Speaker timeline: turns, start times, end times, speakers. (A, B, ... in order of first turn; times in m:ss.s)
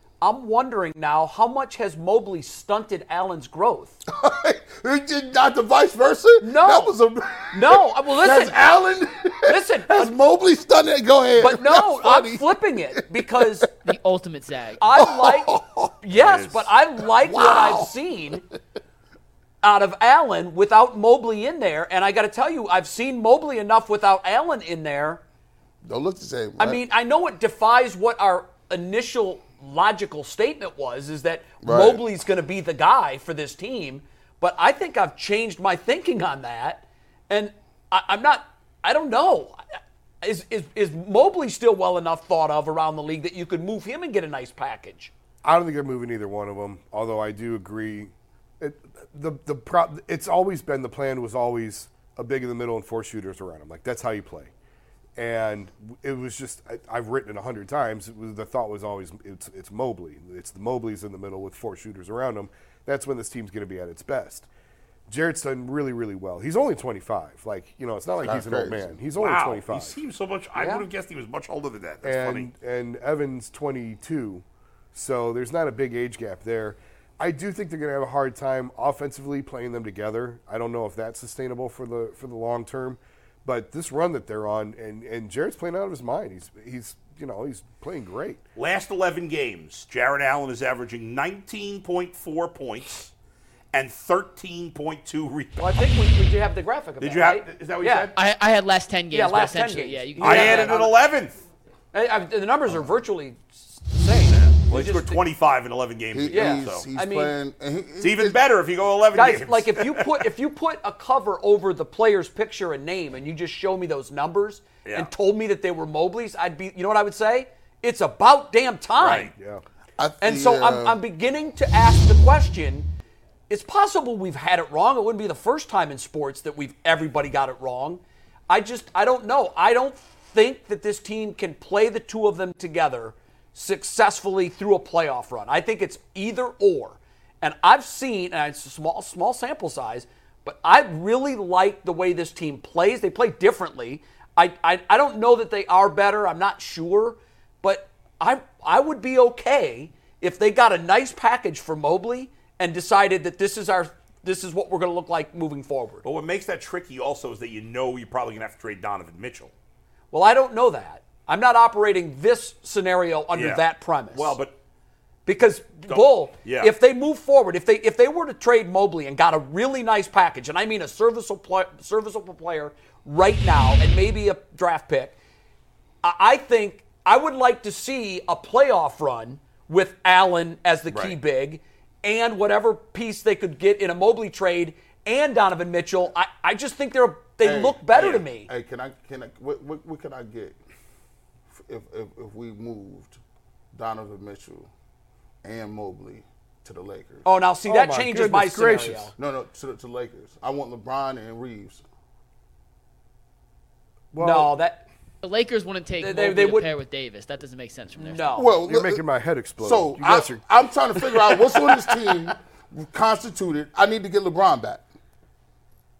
0:00.2-0:04.0 A
0:04.1-0:13.6 B
0:06.4-0:06.9 A
0:07.5-0:08.6 A
0:09.4-0:10.1 A
0:11.4-0:13.7 A
0:13.8-0:14.8 C
0:14.8-0:18.4 A
0:15.0-0:15.9 B
0:16.1-0:16.7 D
0:17.2-0:17.9 B
0:19.6-0:25.2 A
0:25.8-0:26.8 B
0:26.6-0:39.6 A
0:31.6-0:32.0 B
0:40.2-0:45.1 A
0:45.4-0:54.5 E
0:55.2-1:04.5 E
1:05.1-1:10.0 E
1:08.2-1:09.0 B
1:09.2-1:12.5 D
1:10.5-1:10.8 A
1:12.0-1:28.4 E
1:28.6-1:33.1 D
1:33.7-1:35.9 D
1:35.6-1:38.1 A
1:37.0-1:38.2 D
1:38.1-1:40.9 C
1:39.1-1:40.9 A
1:40.2-1:41.4 D
1:41.9-1:45.2 A
1:44.3-1:46.8 D
1:46.1-1:48.4 B
1:46.3-1:47.3 A
1:48.0-1:50.3 D
1:49.1-1:59.3 A
1:54.8-1:55.1 D
1:59.0-1:59.3 D
1:59.4-1:59.6 E
2:00.0-2:01.0 B
2:00.2-2:02.9 A
2:03.5-2:36.0 A
2:36.0-2:39.5 D
2:40.1-2:44.4 A
2:43.3-2:44.5 D
2:45.2-2:55.2 A
2:45.9-2:46.7 D
2:56.0-3:08.5 A
3:00.9-3:01.2 D
3:07.4-3:10.6 B
3:11.5-3:13.2 B
3:13.7-3:14.7 B
3:15.4-3:17.2 B
3:17.2-3:19.1 A
3:17.6-3:19.1 E
3:19.2-3:21.8 B
3:24.1-3:24.6 E
3:24.2-3:24.8 A
3:25.2-3:28.4 C
3:26.0-3:26.7 A
3:28.0-3:28.5 A
3:28.4-3:29.0 B
3:28.6-3:30.4 E
3:29.6-3:34.8 B
3:31.2-3:32.1 A